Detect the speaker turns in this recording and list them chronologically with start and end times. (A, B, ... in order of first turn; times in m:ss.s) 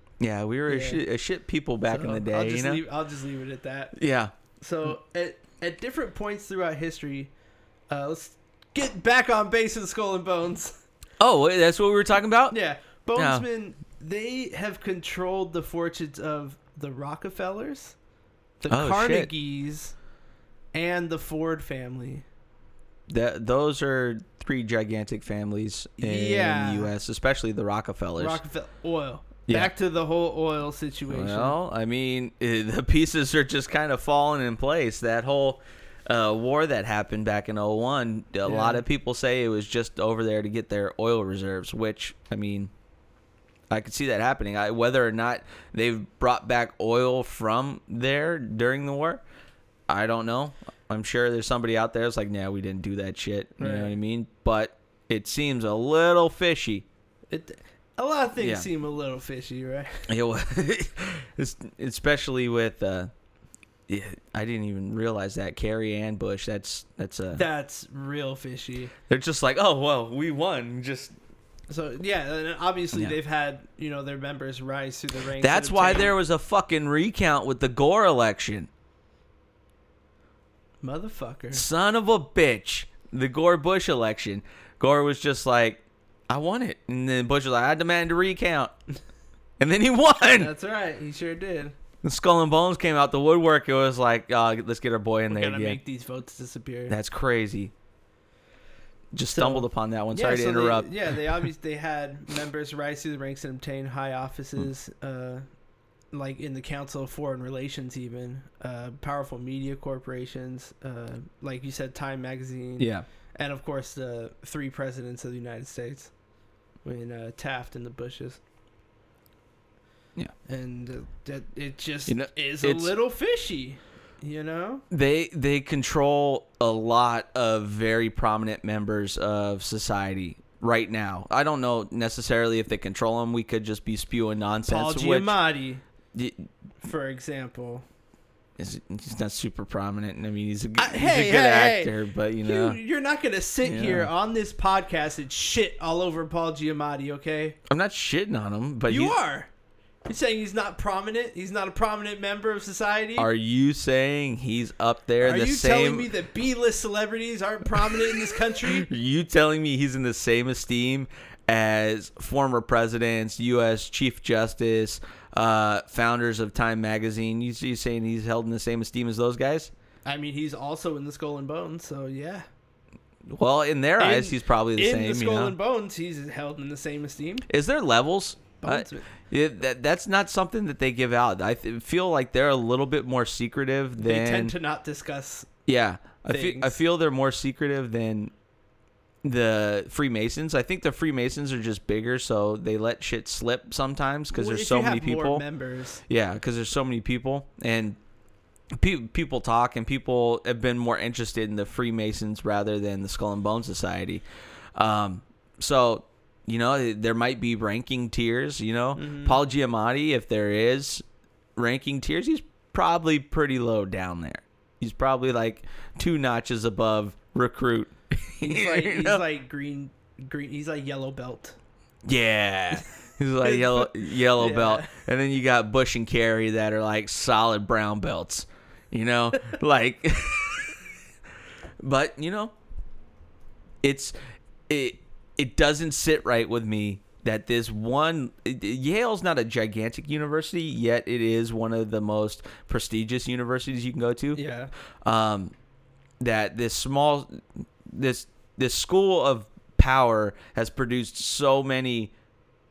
0:00.2-0:02.8 A
0:00.7-0:01.0 B
0:01.9-0:04.0 B
0:03.9-0:04.3 A
0:04.6-0:07.3 B
0:07.9-0:10.8 B
0:11.2-0:12.6 A
0:12.5-0:18.0 B
0:13.2-0:13.4 A
0:18.6-0:20.0 B
0:18.7-0:19.3 A
0:20.7-0:22.2 B
0:23.1-0:28.4 A
0:26.0-0:26.9 B
0:28.2-0:31.6 B
0:29.5-0:29.7 A
0:31.1-0:42.7 A
0:38.4-0:38.8 B
0:43.7-0:49.2 A
0:49.9-0:56.9 A
0:53.6-0:53.9 B
0:57.3-1:00.1 B
0:58.4-0:58.7 A
1:00.1-1:03.1 A
1:03.9-1:07.4 A
1:07.3-1:08.9 B
1:09.1-1:11.2 A
1:11.7-1:16.1 B
1:15.4-1:18.7 A
1:20.8-1:21.6 B
1:21.5-1:28.7 A
1:29.6-1:30.5 A
1:30.2-1:31.8 B
1:32.0-1:35.8 A
1:35.3-1:37.0 B
1:36.9-1:37.7 A
1:39.1-1:40.9 A
1:39.3-1:45.4 B
1:46.1-1:56.1 B
1:52.8-1:53.0 A
1:56.8-1:58.4 B
2:00.5-2:04.8 B
2:02.1-2:02.9 A
2:04.9-2:15.4 A
2:14.7-2:15.8 B
2:16.1-2:16.5 A
2:16.8-2:17.9 B
2:18.6-2:22.8 A
2:20.8-2:27.6 B
2:23.6-2:24.1 A
2:27.7-2:29.2 A
2:28.9-2:29.5 B
2:30.1-2:33.3 B
2:33.2-2:36.1 A
2:35.2-2:38.9 B
2:38.5-2:49.7 A
2:50.1-2:52.5 B
2:53.3-2:55.6 A
2:54.0-2:57.5 B
2:57.5-3:04.5 A
2:58.6-2:59.1 B
3:04.0-3:05.5 B
3:05.7-3:08.3 A
3:06.3-3:06.8 B
3:09.2-3:15.4 A
3:14.3-3:16.0 B
3:16.1-3:18.0 A
3:18.8-3:24.2 A
3:24.8-3:31.0 A
3:29.0-3:29.4 B
3:31.6-3:39.2 A
3:38.4-3:41.6 B
3:42.1-3:50.8 A
3:43.4-3:45.0 B
3:51.8-3:52.5 A
3:53.8-3:54.2 A
3:54.7-4:04.4 A
4:04.4-4:04.7 B
4:05.0-4:05.5 A
4:06.2-4:12.1 A